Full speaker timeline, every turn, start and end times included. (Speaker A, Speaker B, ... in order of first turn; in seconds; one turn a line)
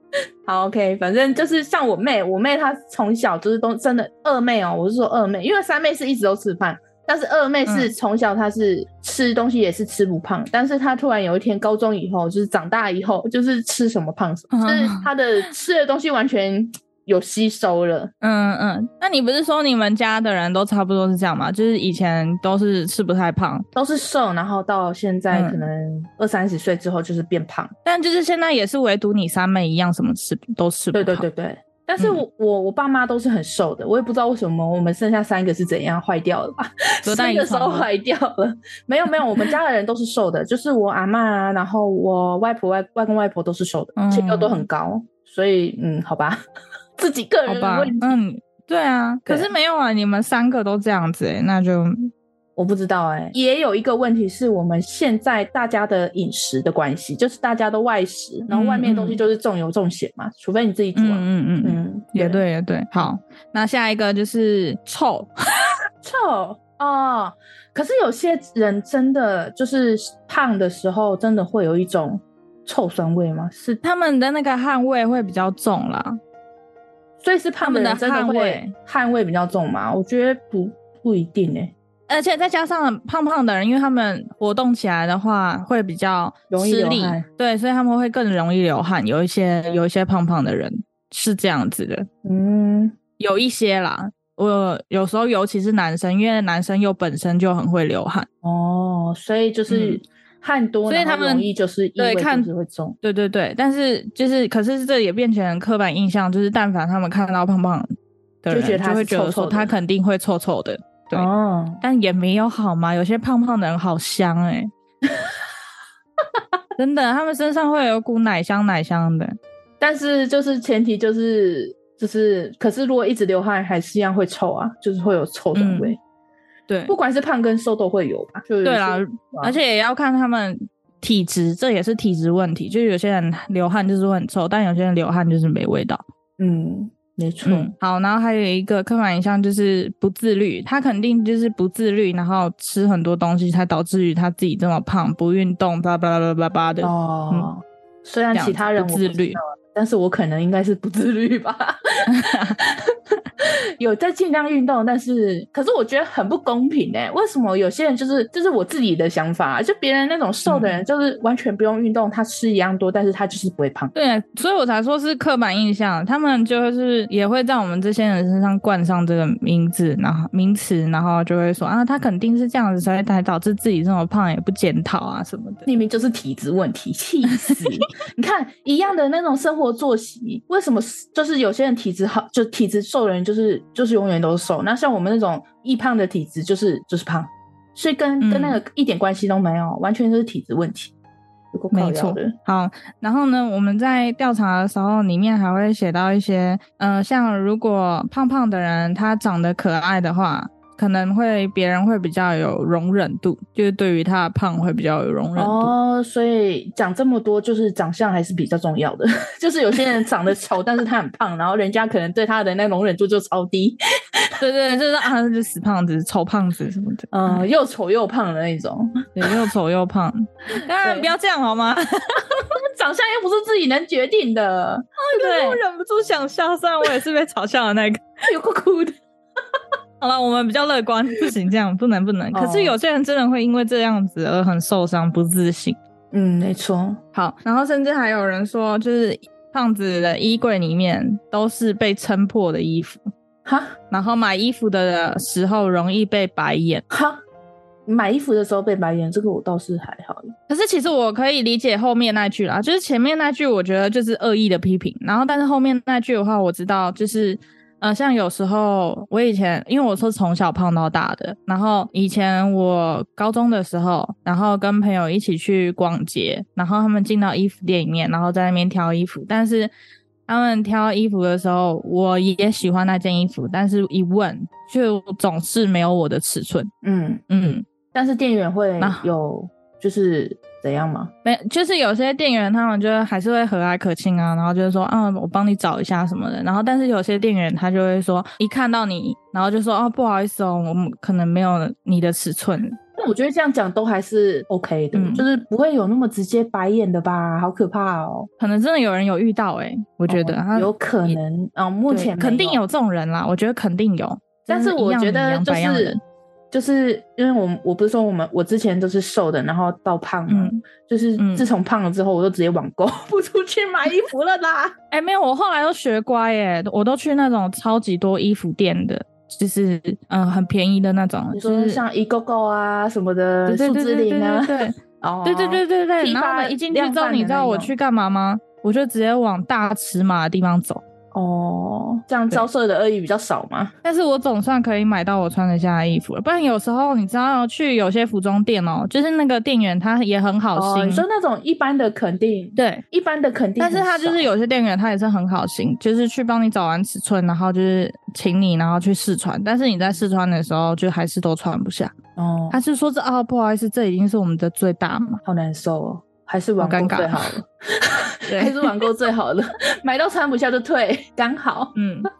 Speaker A: 0.5-18.1
Speaker B: 7.7-7.9
Speaker B: 14.5-15.1
Speaker B: 18.2-23.6
Speaker A: 23.7-27.7
Speaker B: 25.3-25.6
Speaker B: 27.8-31.2
Speaker A: 30.9-46.4
Speaker B: 37.0-37.9
Speaker B: 44.0-44.6
Speaker A: 47.0-48.1
Speaker B: 47.5-52.1
Speaker A: 52.5-62.4
Speaker B: 58.5-59.2
Speaker B: 61.0-65.3
Speaker A: 66.0-73.8
Speaker B: 73.8-76.2
Speaker A: 77.2-81.7
Speaker B: 77.6-78.7
Speaker B: 82.1-92.1
Speaker A: 86.5-87.2
Speaker A: 92.2-92.9
Speaker B: 93.2-98.3
Speaker A: 98.4-103.0
Speaker B: 99.7-100.0
Speaker B: 100.9-102.5
Speaker B: 103.0-111.3
Speaker A: 108.5-109.7
Speaker A: 111.1-111.8
Speaker B: 111.8-114.7
Speaker B: 116.8-119.4
Speaker A: 119.8-126.0
Speaker B: 125.5-126.0
Speaker B: 126.7-126.9
Speaker A: 126.9-129.6
Speaker B: 128.6-136.0
Speaker A: 136.4-137.7
Speaker B: 137.4-147.5
Speaker A: 146.8-152.3
Speaker B: 148.3-149.4
Speaker B: 152.1-152.6
Speaker A: 153.4-163.9
Speaker B: 160.4-160.7
Speaker B: 163.9-175.7
Speaker A: 175.7-190.9
Speaker B: 188.2-188.6
Speaker A: 191.5-192.3
Speaker B: 191.7-205.7
Speaker A: 205.3-214.3
Speaker B: 214.4-217.5
Speaker A: 217.1-219.1
Speaker B: 219.2-222.4
Speaker A: 220.6-221.1
Speaker A: 222.8-225.6
Speaker B: 225.0-228.0
Speaker A: 228.3-228.9
Speaker B: 230.0-235.8
Speaker A: 232.3-232.8
Speaker A: 236.1-237.0
Speaker B: 237.1-243.0
Speaker A: 243.4-243.8
Speaker B: 243.9-246.8
Speaker A: 246.9-247.2
Speaker A: 247.9-250.3
Speaker B: 250.5-269.7
Speaker B: 270.3-276.7
Speaker A: 276.8-277.2
Speaker B: 277.3-277.6
Speaker A: 277.9-281.1
Speaker B: 278.8-279.1
Speaker B: 281.2-292.8
Speaker A: 292.9-298.3
Speaker B: 294.9-295.2
Speaker B: 298.4-301.2
Speaker A: 300.1-302.6
Speaker B: 301.9-306.0
Speaker A: 304.5-306.0
Speaker A: 306.5-314.7
Speaker B: 310.3-310.6
Speaker B: 311.2-311.5
Speaker B: 314.9-321.8
Speaker A: 321.3-327.7
Speaker B: 323.5-330.8
Speaker A: 331.1-333.7
Speaker B: 333.8-341.0
Speaker A: 340.6-344.3
Speaker B: 342.6-342.8
Speaker B: 343.6-351.9
Speaker A: 352.2-352.6
Speaker B: 352.5-355.2
Speaker A: 355.2-361.7
Speaker B: 356.6-357.3
Speaker B: 358.3-358.7
Speaker B: 361.7-362.1